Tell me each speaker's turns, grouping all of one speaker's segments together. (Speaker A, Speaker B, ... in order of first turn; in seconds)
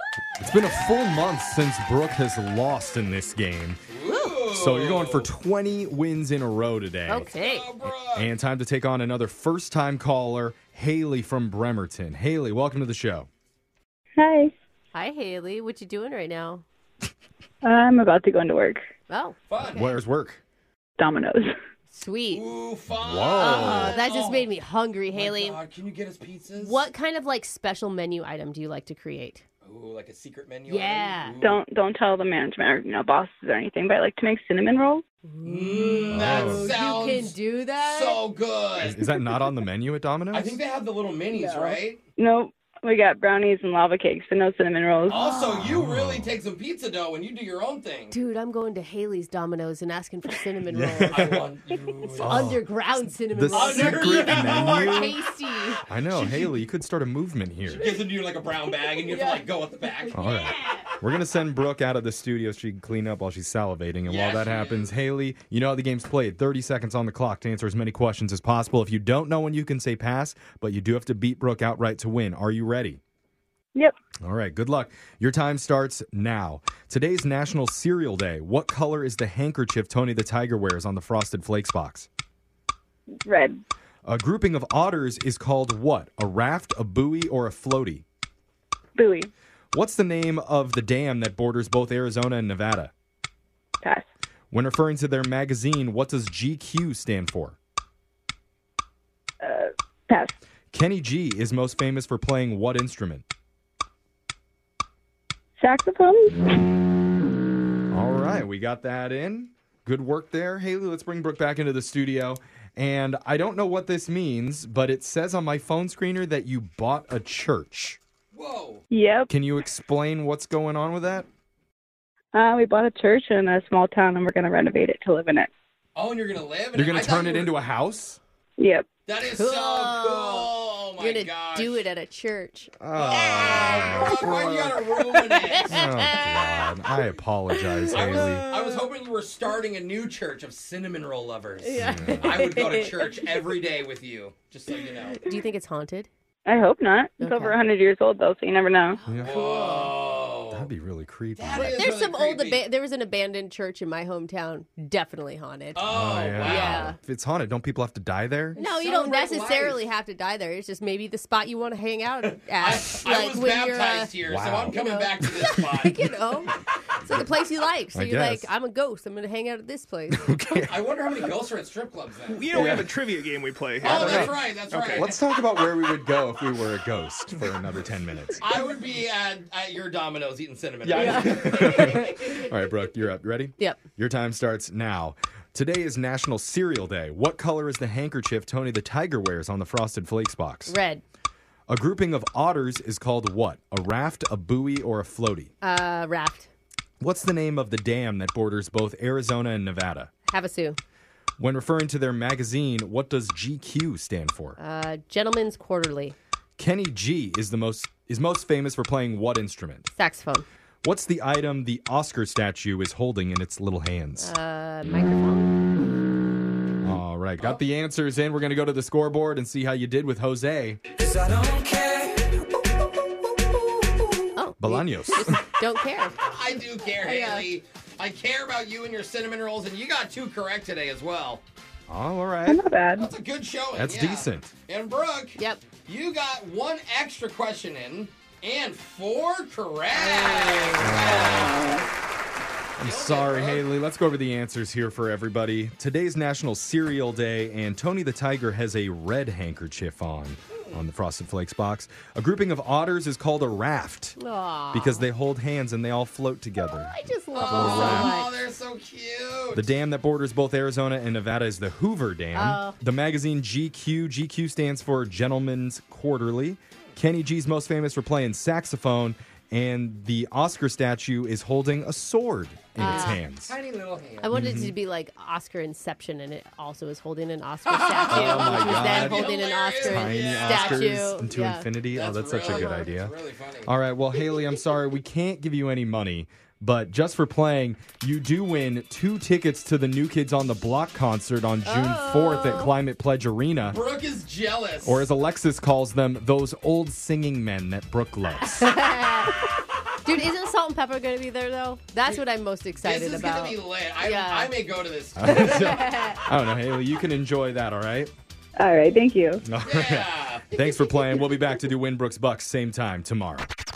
Speaker A: 0.4-3.8, 4.5-7.3, 8.1-13.3, 19.6-20.4, 23.0-24.0, 36.1-36.7, 38.8-40.6, 45.4-46.3, 50.7-51.5, 52.2-52.6, 53.3-55.1, 55.9-57.9, 60.1-73.0, 74.2-82.1, 84.0-88.0, 89.7-92.9, 94.5-97.6, 100.7-103.2, 107.9-118.0, 119.3-121.2, 126.7-128.2, 132.8-134.8, 135.7-138.5, 141.8-142.4, 149.1-149.3, 150.5-151.8, 155.9-158.6, 164.3-165.3, 167.9-168.5, 170.1-170.7, 172.5-172.9, 173.8-174.3, 174.9-178.4, 180.8-190.8, 191.7-195.5, 197.0-200.1, 201.4-204.6, 206.6-209.9, 210.8-214.3, 216.8-220.8, 224.6-225.4, 231.9-232.6, 233.7-234.5, 240.8-241.7, 242.8-254.2, 254.7-256.9, 257.4-258.1, 259.5-273.6, 274.3-274.8, 278.1-279.3, 279.9-283.1, 283.6-293.8, 294.8-298.8, 305.2-308.1, 309.4-313.5
Speaker B: 3.9-5.3, 7.3-8.3, 19.5-19.8, 22.3-24.5, 25.1-26.9, 29.6-31.6, 35.4-39.0, 40.3-42.0, 45.1-48.1, 51.0-52.5, 53.5-56.6, 57.7-60.8, 64.0-64.9, 118.3-118.8, 125.9-127.5, 129.1-131.8, 132.9-135.8, 137.9-145.3, 149.2-150.7, 151.3-152.6, 155.7-156.9, 158.6-159.8, 162.5-166.1, 170.7-172.8, 173.8-175.2, 178.4-182.3, 226.2-231.4, 232.9-241.8, 242.8-243.7, 257.3-259.7, 272.8-274.3, 277.6-281.0, 281.9-283.7, 293.6-295.1, 302.8-305.9, 309.6-310.5
Speaker C: 7.1-7.7, 14.9-16.6, 19.1-20.0, 21.9-22.4, 23.3-25.6, 26.5-29.4, 30.7-31.4, 35.2-38.2, 38.9-39.5, 48.1-51.2, 52.2-55.8, 60.1-60.9, 129.2-138.7, 141.6-143.4, 145.2-146.1, 147.2-147.6, 148.9-150.0, 151.5-157.0, 158.5-164.1, 164.7-170.4, 180.9-182.2, 190.7-191.0, 195.6-196.5, 200.3-200.8, 204.6-206.1, 209.9-210.4, 214.2-215.6, 224.3-226.2, 226.9-227.5, 235.4-235.6, 239.9-241.4, 254.2-255.0, 256.6-258.3, 262.3-262.8, 272.8-273.2, 274.2-281.7, 282.4-282.9, 291.6-292.7, 298.4-299.4, 300.0-304.5, 305.2-306.2
Speaker D: 14.2-14.5, 17.6-18.8, 21.0-21.5, 31.4-35.0, 41.3-45.3, 83.2-83.6, 89.0-89.3, 99.4-100.3, 105.6-106.7, 118.9-119.3, 122.3-125.5, 128.6-128.9, 146.4-149.0, 232.5-233.1, 308.6-309.4
Speaker E: 172.3-175.1, 221.0-222.3